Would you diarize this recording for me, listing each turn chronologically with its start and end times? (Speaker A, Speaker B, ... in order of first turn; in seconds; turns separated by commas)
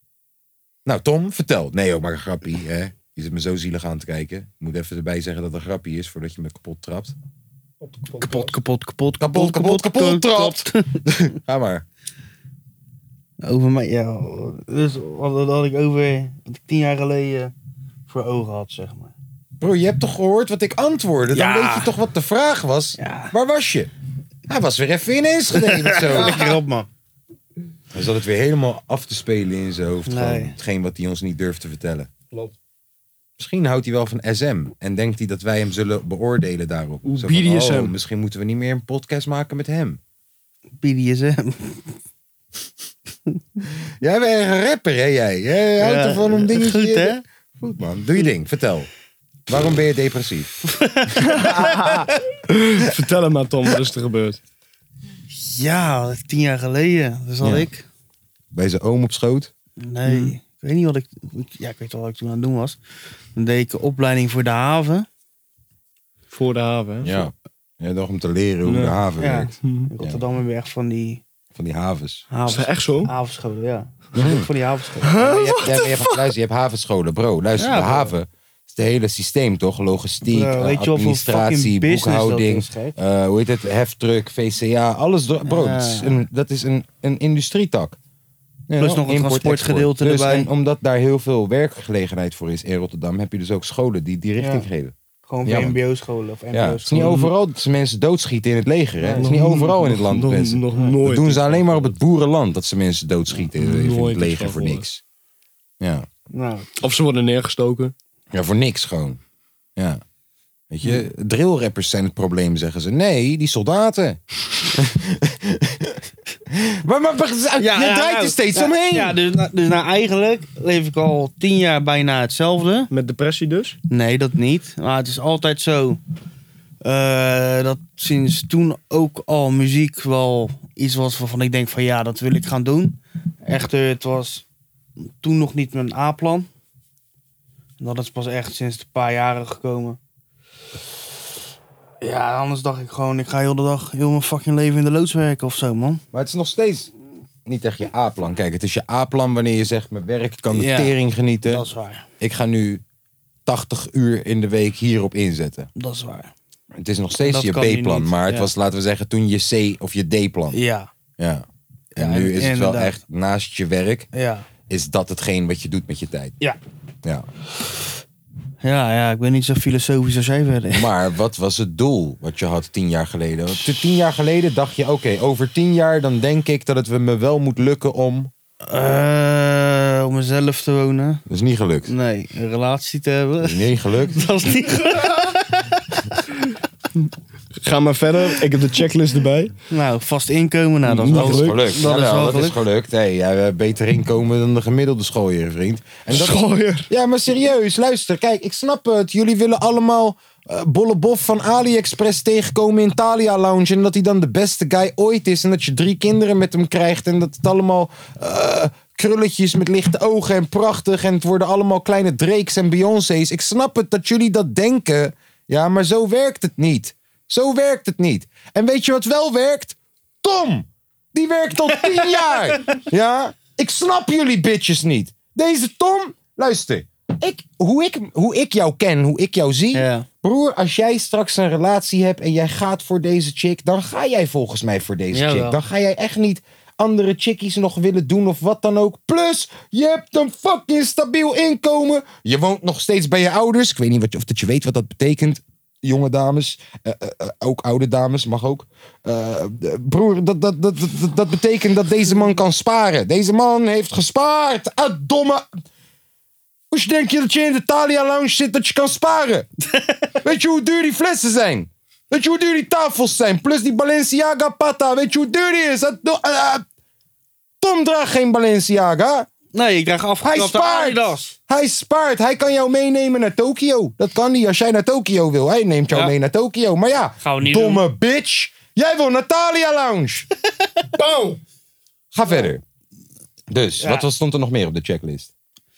Speaker A: 0.8-7.1, Speaker B: 7.8-8.5, Speaker C: 8.2-11.0, Speaker A: 9.2-11.8, Speaker C: 13.4-17.5, Speaker C: 18.1-19.1, Speaker A: 19.6-23.9, Speaker C: 21.3-21.9, Speaker C: 23.0-23.3, Speaker A: 24.5-26.6, Speaker C: 25.5-26.9, Speaker A: 27.9-32.1, Speaker C: 30.1-30.5, Speaker A: 33.4-40.0, Speaker B: 37.0-37.9, Speaker C: 40.8-41.9, Speaker A: 44.0-48.9, Speaker C: 45.8-47.2, Speaker A: 49.5-50.5, Speaker C: 50.7-52.1, Speaker B: 51.3-54.4, Speaker C: 55.3-57.9, Speaker A: 57.4-57.7, Speaker A: 58.5-59.5, Speaker C: 59.8-62.8, Speaker B: 60.0-60.4, Speaker C: 63.3-65.1, Speaker B: 66.3-67.2, Speaker A: 67.0-70.2, Speaker B: 68.6-69.0, Speaker C: 69.2-71.2, Speaker B: 69.6-69.9, Speaker A: 71.5-72.2, Speaker C: 72.3-75.2, Speaker B: 72.5-73.1, Speaker A: 74.1-74.5, Speaker B: 75.0-76.3, Speaker A: 75.1-88.0, Speaker C: 77.6-78.1, Speaker C: 80.3-83.0, Speaker C: 85.4-86.2, Speaker A: 88.7-95.8, Speaker C: 88.8-90.5, Speaker C: 94.4-94.7, Speaker C: 95.3-97.2, Speaker A: 96.5-105.0, Speaker B: 97.0-97.3, Speaker C: 99.0-99.3, Speaker B: 99.2-101.9, Speaker B: 103.6-104.8, Speaker A: 105.8-106.1, Speaker C: 106.3-106.7, Speaker B: 106.8-107.9, Speaker A: 108.3-109.2, Speaker A: 110.7-114.2, Speaker A: 114.7-119.2, Speaker C: 117.6-122.9, Speaker B: 122.9-123.8, Speaker C: 123.9-126.0, Speaker C: 126.8-134.4, Speaker C: 135.2-136.5, Speaker C: 137.8-140.0, Speaker C: 142.0-146.0, Speaker A: 146.1-146.9, Speaker A: 147.4-151.6, Speaker C: 150.5-152.1, Speaker A: 152.2-152.8, Speaker A: 153.4-155.7, Speaker C: 155.8-156.3, Speaker A: 156.8-160.6, Speaker C: 157.2-158.5, Speaker C: 160.5-160.9, Speaker A: 161.2-164.1, Speaker C: 161.9-163.0, Speaker C: 164.1-164.5, Speaker A: 164.7-166.3, Speaker C: 168.6-170.9, Speaker A: 170.7-178.3, Speaker C: 178.7-181.2, Speaker A: 181.3-181.9, Speaker C: 181.9-186.2, Speaker A: 183.4-184.2, Speaker B: 187.6-189.5, Speaker C: 189.7-192.6, Speaker B: 190.8-191.6, Speaker A: 191.1-255.5, Speaker B: 196.1-196.9, Speaker C: 221.8-222.7, Speaker C: 229.7-230.1, Speaker C: 235.1-235.6, Speaker A: 256.7-259.5, Speaker C: 259.7-260.1, Speaker A: 260.2-266.6, Speaker A: 267.6-269.3, Speaker C: 269.5-271.4, Speaker A: 270.2-280.3, Speaker C: 277.2-277.8, Speaker B: 281.0-281.4, Speaker A: 282.1-282.6, Speaker A: 283.5-285.3, Speaker C: 283.8-284.1